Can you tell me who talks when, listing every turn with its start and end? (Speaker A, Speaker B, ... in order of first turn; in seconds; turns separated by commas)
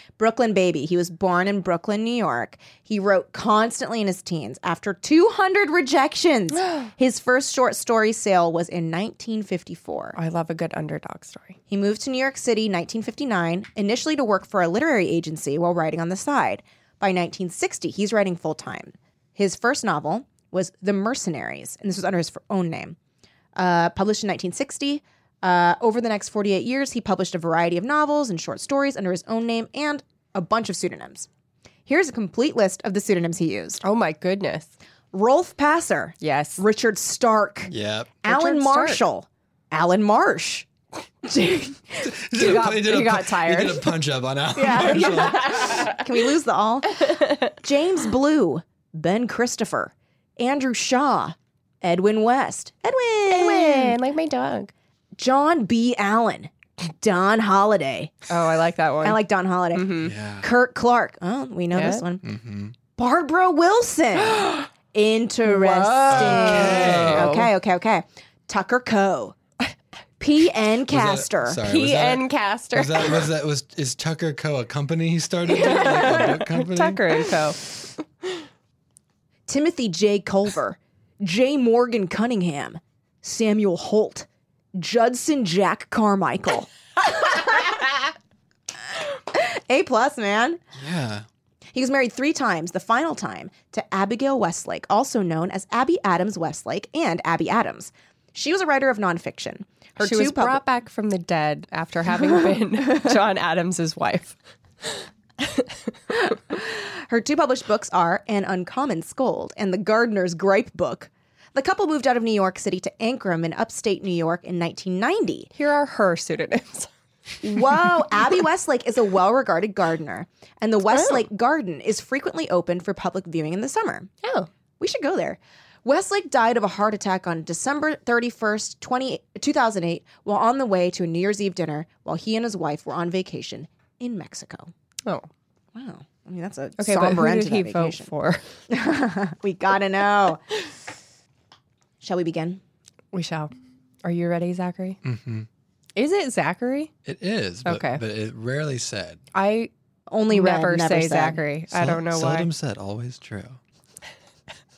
Speaker A: 0.2-10.2, Speaker B: 6.5-6.9, Speaker B: 10.1-11.6, Speaker A: 11.7-22.9, Speaker A: 23.6-31.3, Speaker A: 31.9-33.8, Speaker B: 33.8-34.7, Speaker A: 35.1-40.7, Speaker B: 36.2-36.6, Speaker C: 37.7-38.1, Speaker B: 38.3-39.0, Speaker A: 41.2-42.0, Speaker C: 42.0-45.9, Speaker B: 42.4-43.9, Speaker A: 44.5-54.0, Speaker B: 47.0-47.5, Speaker B: 53.3-54.7, Speaker A: 55.2-58.2, Speaker B: 58.3-59.2, Speaker A: 59.0-62.2, Speaker B: 59.7-60.1, Speaker C: 60.0-60.5, Speaker B: 61.7-62.0, Speaker C: 62.2-62.8, Speaker A: 63.0-69.4, Speaker B: 65.5-67.5, Speaker C: 66.1-67.3, Speaker A: 70.2-71.6, Speaker C: 70.9-77.0, Speaker B: 71.6-73.1, Speaker B: 75.5-77.6, Speaker A: 79.5-88.1, Speaker A: 88.9-90.6, Speaker C: 90.8-91.2, Speaker A: 91.7-100.6, Speaker B: 100.0-104.4, Speaker B: 105.4-105.7, Speaker A: 106.1-115.5, Speaker B: 115.5-116.9, Speaker A: 117.4-124.1, Speaker B: 120.9-121.2, Speaker A: 124.8-134.7, Speaker A: 135.8-138.1, Speaker B: 136.8-138.4, Speaker A: 138.7-140.4, Speaker A: 142.0-142.6, Speaker B: 143.1-143.5, Speaker B: 144.0-145.0, Speaker C: 145.0-145.5, Speaker B: 145.9-146.9, Speaker C: 147.0-149.2, Speaker B: 147.6-148.0, Speaker B: 149.3-149.7, Speaker A: 150.1-151.4, Speaker B: 150.3-152.5, Speaker C: 151.7-153.6